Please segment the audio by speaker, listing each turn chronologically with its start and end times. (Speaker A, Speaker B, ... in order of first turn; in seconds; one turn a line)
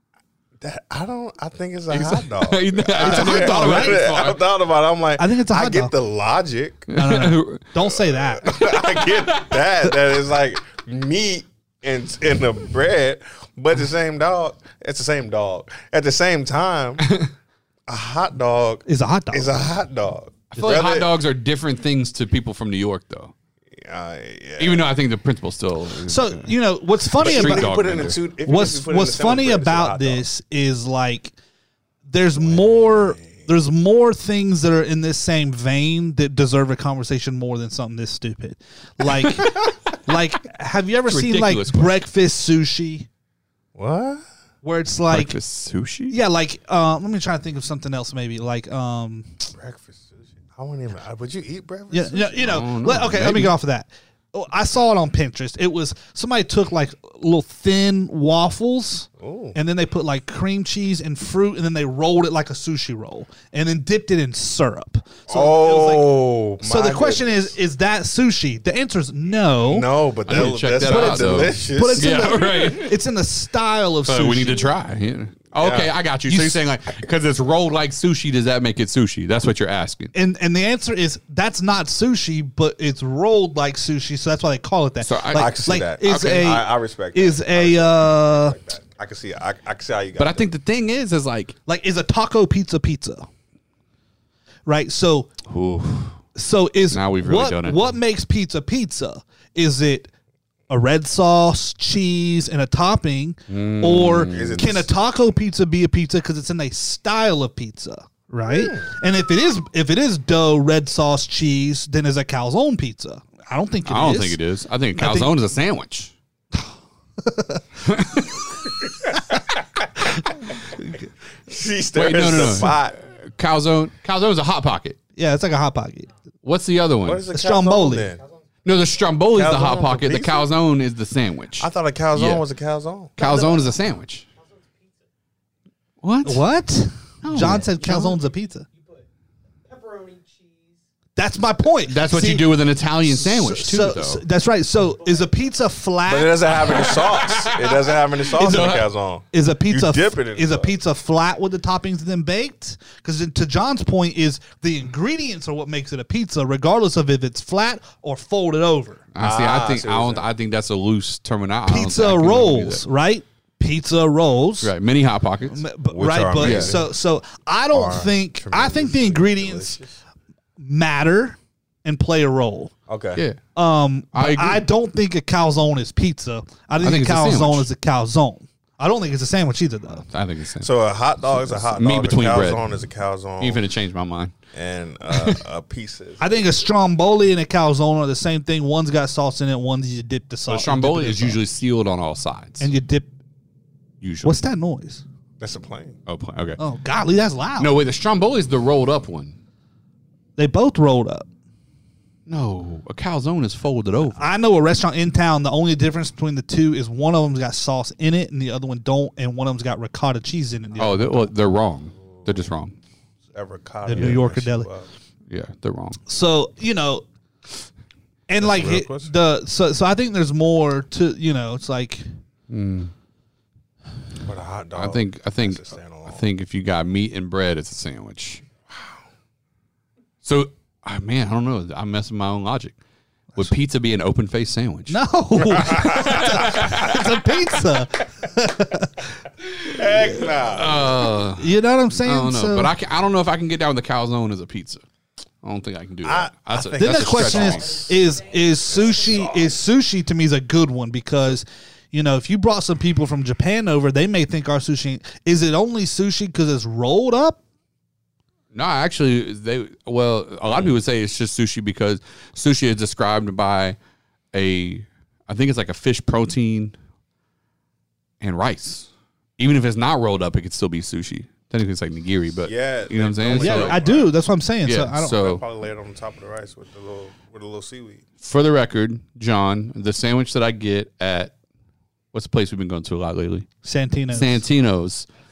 Speaker A: 0.6-6.9
Speaker B: 1.9-4.4
Speaker C: 3.0-4.0
Speaker C: 5.2-5.9
Speaker B: 6.9-7.6
Speaker C: 6.9-8.6
Speaker A: 8.1-17.0
Speaker B: 8.5-9.6
Speaker B: 17.0-17.3
Speaker A: 17.9-21.1
Speaker C: 18.9-19.6
Speaker B: 20.5-23.3
Speaker A: 23.7-24.9
Speaker B: 24.6-26.5
Speaker C: 26.1-31.3
Speaker B: 27.1-28.2
Speaker A: 27.2-30.2
Speaker C: 32.1-43.1
Speaker A: 32.4-33.2
Speaker B: 41.0-42.0
Speaker A: 43.7-44.2
Speaker C: 44.6-45.4
Speaker B: 45.1-46.1
Speaker C: 46.1-49.5
Speaker A: 49.5-52.6
Speaker C: 51.9-74.6
Speaker B: 52.4-53.5
Speaker A: 59.2-59.5
Speaker A: 65.3-67.5
Speaker A: 69.6-72.5
Speaker B: 70.3-73.0
Speaker B: 74.1-80.1
Speaker A: 75.5-75.9
Speaker C: 76.3-76.6
Speaker C: 80.1-88.5
Speaker B: 85.0-86.5
Speaker A: 85.3-90.5
Speaker B: 90.2-91.6
Speaker C: 91.7-93.3
Speaker C: 94.7-95.3
Speaker B: 95.5-96.2
Speaker C: 96.3-100.1
Speaker B: 96.9-97.9
Speaker C: 100.7-114.4
Speaker B: 103.5-104.7
Speaker A: 104.3-104.9
Speaker A: 108.5-108.9
Speaker B: 113.8-116.1
Speaker C: 115.0-115.3
Speaker C: 117.2-117.6
Speaker B: 117.8-118.3
Speaker A: 119.0-123.0
Speaker B: 121.9-125.0
Speaker C: 125.2-126.1
Speaker B: 126.4-127.2
Speaker A: 127.0-128.2
Speaker C: 127.3-128.1
Speaker B: 128.6-132.4
Speaker A: 129.3-130.5
Speaker A: 131.6-133.2
Speaker B: 133.2-134.3
Speaker D: 133.2-133.8
Speaker D: 134.3-135.0
Speaker B: 136.0-136.4
Speaker C: 136.2-138.7
Speaker B: 137.2-138.1
Speaker D: 137.4-138.1
Speaker D: 138.7-139.1
Speaker D: 139.6-140.8
Speaker C: 141.2-142.5
Speaker B: 141.8-144.2
Speaker C: 143.1-146.7
Speaker D: 145.0-145.4
Speaker A: 146.1-150.7
Speaker B: 146.5-148.9
Speaker C: 149.3-159.0
Speaker B: 159.1-162.8
Speaker A: 159.2-160.3
Speaker C: 161.7-164.7
Speaker B: 164.6-165.6
Speaker C: 165.5-169.8
Speaker A: 165.9-166.8
Speaker B: 166.4-166.8
Speaker A: 167.7-170.0
Speaker C: 170.6-172.7
Speaker A: 172.9-173.2
Speaker C: 173.5-180.1
Speaker B: 174.1-174.6
Speaker B: 176.8-177.7
Speaker B: 180.1-180.7
Speaker A: 180.6-183.6
Speaker B: 181.5-182.6
Speaker B: 183.4-184.3
Speaker A: 184.5-186.2
Speaker B: 185.1-185.4
Speaker C: 186.2-191.4
Speaker B: 190.5-192.7
Speaker C: 192.6-193.1
Speaker B: 194.0-194.4
Speaker C: 194.2-195.0
Speaker A: 195.4-195.9
Speaker B: 196.1-196.6
Speaker C: 196.6-197.7
Speaker B: 197.6-199.4
Speaker C: 200.4-201.2
Speaker B: 202.3-204.3
Speaker C: 204.1-211.3
Speaker B: 210.8-212.7
Speaker A: 213.3-214.9
Speaker C: 213.8-214.7
Speaker B: 215.3-216.0
Speaker C: 216.1-217.1
Speaker C: 218.3-222.1
Speaker A: 218.4-219.1
Speaker B: 222.5-222.9
Speaker A: 224.2-226.2
Speaker B: 224.8-228.4
Speaker A: 228.7-229.0
Speaker B: 230.2-232.7
Speaker B: 233.4-235.0
Speaker C: 234.9-239.2
Speaker A: 235.4-236.7
Speaker B: 235.5-237.0
Speaker A: 239.6-241.0
Speaker C: 239.9-240.3
Speaker B: 240.5-244.8
Speaker C: 241.3-242.7
Speaker B: 245.4-247.9
Speaker A: 246.0-247.8
Speaker C: 246.8-257.4
Speaker D: 247.4-249.4
Speaker B: 258.5-263.8
Speaker B: 264.3-266.8
Speaker B: 268.2-273.8
Speaker A: 272.4-274.1
Speaker C: 273.3-275.2
Speaker B: 274.6-275.4
Speaker A: 275.1-278.0
Speaker B: 278.2-281.3
Speaker B: 282.1-283.5
Speaker C: 283.6-284.4
Speaker B: 284.1-285.1